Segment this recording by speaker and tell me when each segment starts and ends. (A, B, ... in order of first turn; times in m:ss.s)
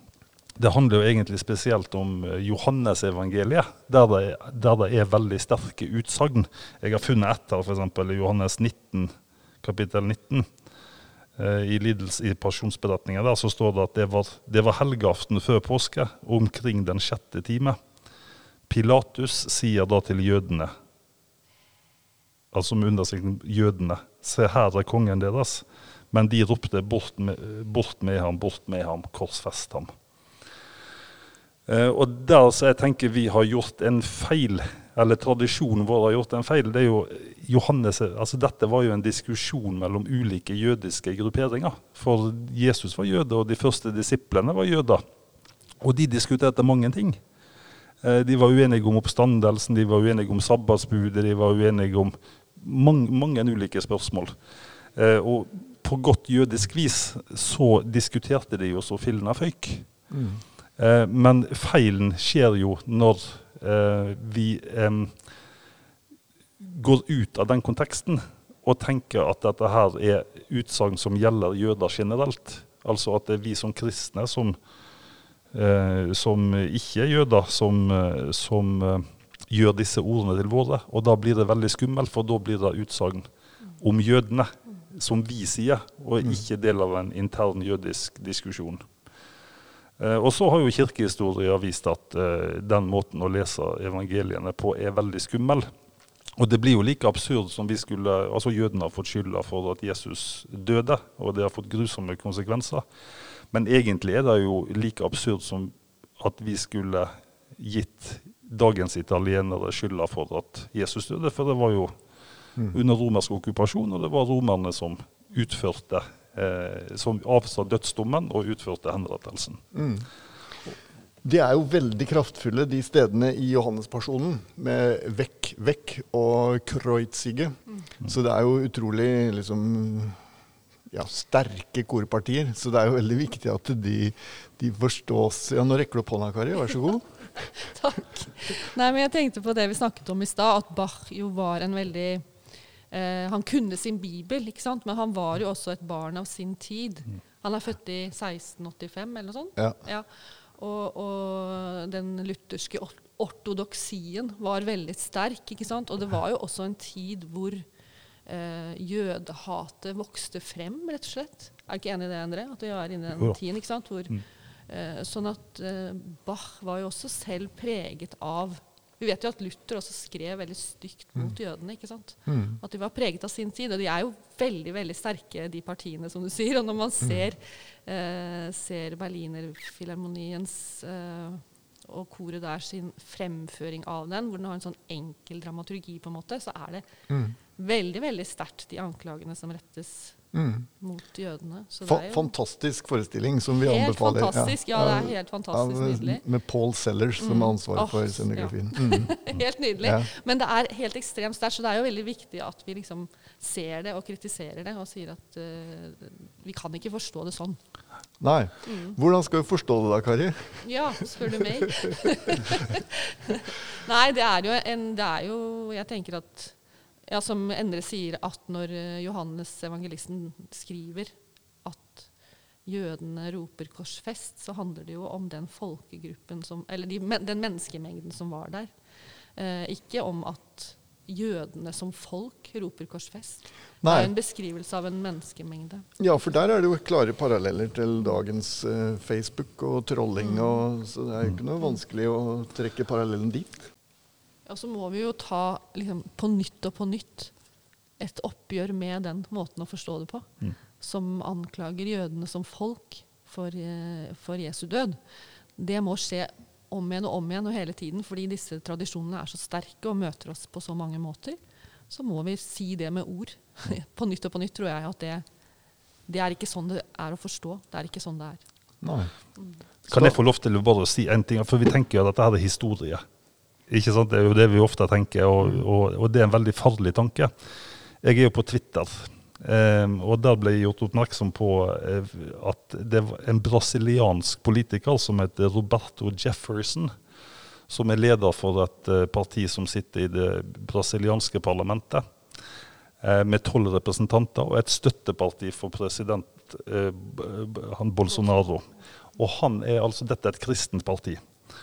0:00.6-0:10.5 A
0:11.4-0:17.8 A
0:18.7-0:20.7 A
0:22.5-0:29.9 A
0:31.7-0:45.0 A
0:45.8-0:47.2 A
0:48.0-0:54.4 A
0:54.9-0:59.9 A
1:00.1-1:00.4 B
1:00.8-1:05.3 A
1:06.6-1:14.6 A
1:15.5-1:28.8 A
1:30.0-1:35.7 A
1:36.4-1:42.8 A
1:43.5-1:51.9 A
1:52.7-1:59.6 A
1:59.7-2:00.1 B
2:01.2-2:10.2 B
2:10.9-2:17.5 B
2:17.6-2:22.2 C
2:22.9-2:37.6 C
2:38.2-2:44.2 C
2:44.7-3:06.9 C
2:52.2-2:52.6 B
3:07.1-3:07.4 B
3:07.6-3:10.2 C
3:10.3-3:10.7 B
3:10.8-3:12.3 C
3:11.8-3:19.2 B
3:13.6-3:16.2 C
3:17.2-3:27.6 C
3:19.8-3:20.1 B
3:28.2-3:32.0 B
3:28.6-3:29.0 C
3:30.6-3:36.6 C
3:37.1-3:42.1 C
3:42.6-3:48.7 C
3:49.3-3:55.8 C
3:53.8-3:54.1 B
3:56.0-4:03.7 B
4:04.4-4:07.3 C
4:08.0-4:10.3 C
4:10.8-4:15.0 C
4:15.6-4:21.4 C
4:21.9-4:25.2 C
4:26.1-4:28.4 C
4:28.8-4:29.1 B
4:29.9-4:30.1 B
4:29.9-4:33.0 A
4:33.7-4:37.3 A
4:38.0-4:46.9 A
4:47.7-4:52.0 A
4:53.0-5:01.2 A